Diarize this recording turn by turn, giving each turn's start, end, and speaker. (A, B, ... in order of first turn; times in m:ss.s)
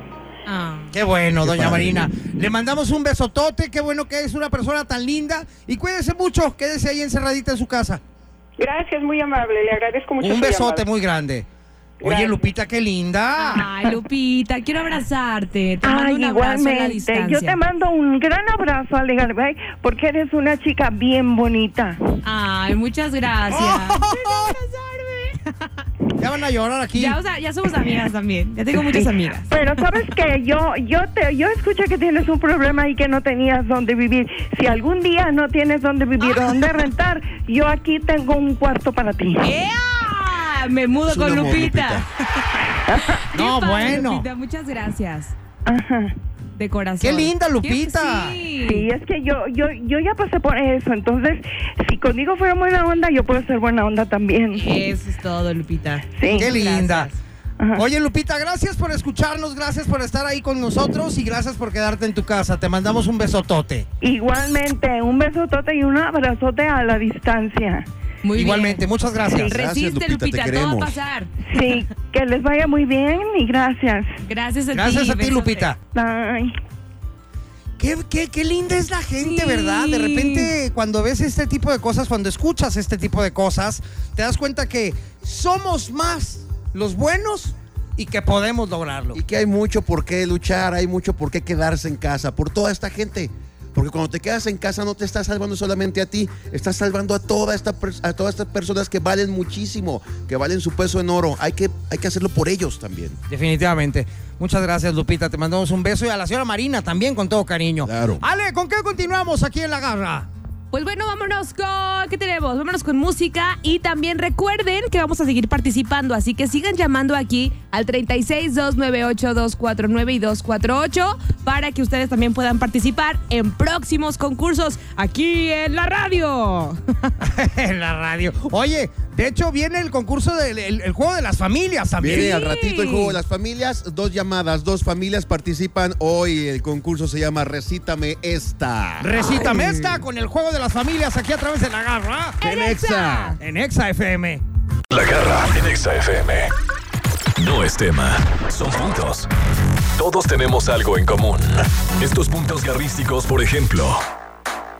0:00.5-0:00.9 A
0:00.9-0:08.0 B
0:01.4-0:02.1 C
0:08.6-0:10.8 D
0:10.2-0:11.5 B
0:12.0-0:12.5 D
0:12.0-0:13.7 B
0:13.4-0:17.6 A
0:15.8-0:22.0 E
0:22.2-0:25.8 A
0:23.5-0:24.5 B
0:26.2-0:27.2 B
0:27.0-0:29.5 A
0:28.8-0:39.5 E
0:39.4-0:42.4 A
0:41.0-0:42.1 C
0:42.9-0:43.2 E
0:43.2-0:45.3 A
0:43.3-0:44.3 B
0:45.7-0:46.2 E
0:46.6-0:48.9 A
0:47.0-0:48.4 B
0:48.6-0:54.6 E
0:54.6-0:57.2 A
0:56.2-0:56.5 E
0:56.3-0:57.1 B
0:57.8-1:03.9 B
1:04.0-1:07.8 E
1:08.2-1:08.8 A
1:08.4-1:09.5 B
1:09.4-1:11.3 A
1:09.4-1:11.0 C
1:11.5-1:14.2 E
1:14.3-1:15.7 A
1:14.7-1:15.8 B
1:15.9-1:16.6 E
1:17.8-1:29.2 B
1:19.2-1:20.5 A
1:29.1-1:43.2 C
1:43.3-1:50.3 B
1:47.8-1:48.2 C
1:50.7-2:07.1 A
2:07.2-2:12.3 B
2:12.0-2:19.6 C
2:12.1-2:13.2 A
2:19.0-2:22.4 B
2:22.4-2:23.4 A
2:22.4-2:23.4 C
2:23.4-2:24.4 B
2:24.9-2:26.5 F
2:27.4-2:29.3 F
2:30.0-2:34.0 F